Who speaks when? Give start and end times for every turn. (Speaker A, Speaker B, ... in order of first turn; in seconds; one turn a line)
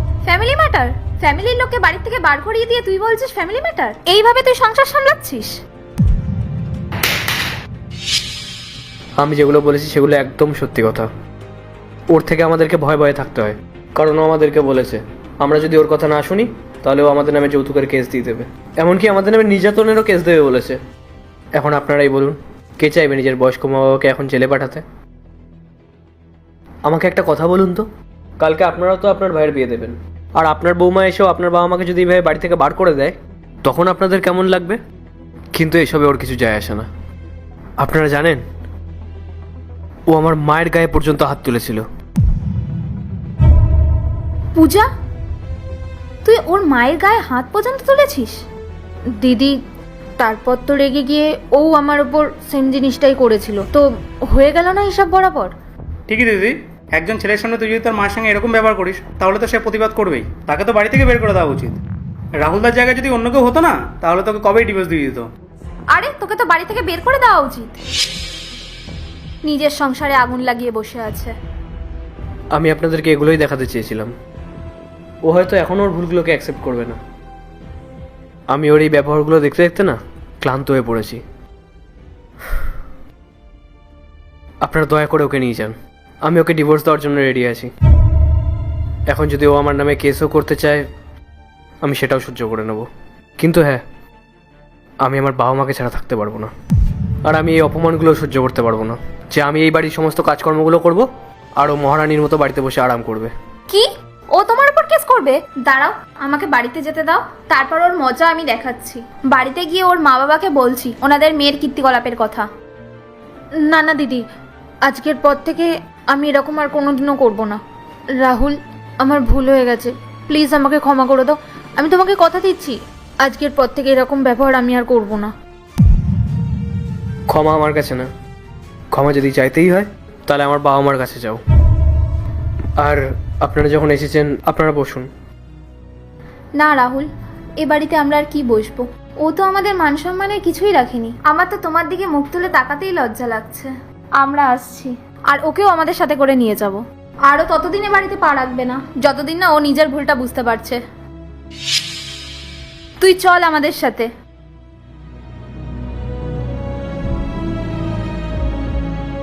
Speaker A: 0.2-5.5
Speaker B: 9.2-11.1
Speaker B: 12.1-20.8
Speaker B: 21.6-24.8
Speaker B: 26.9-27.9
Speaker B: 28.4-34.8
Speaker B: 35.5-36.9
Speaker B: 37.8-38.4
Speaker B: 40.1-41.9
Speaker A: 44.5-44.9
Speaker A: 46.2-48.4
Speaker A: 49.2-49.6
Speaker A: 50.2-55.5
Speaker C: 56.1-61.8
Speaker C: 62.4-65.3
Speaker A: 65.9-67.7
Speaker A: 69.4-71.3
Speaker B: 72.5-74.1
Speaker B: 75.2-77.0
Speaker B: 78.5-81.2
Speaker B: 84.6-87.7
Speaker B: 89.1-90.8
Speaker B: 91.8-92.9
Speaker B: 93.4-93.8
Speaker B: 95.0-96.5
Speaker B: 97.2-101.0
Speaker B: 101.6-103.3
Speaker A: 103.7-112.5
Speaker A: 113.7-114.2
Speaker A: 114.9-117.6
Speaker A: 118.2-125.3
Speaker B: 127.3-128.1
Speaker B: 128.9-131.4
Speaker B: 132.8-135.1
Speaker A: 136.6-137.1
Speaker A: 137.6-150.8
Speaker A: 153.0-154.1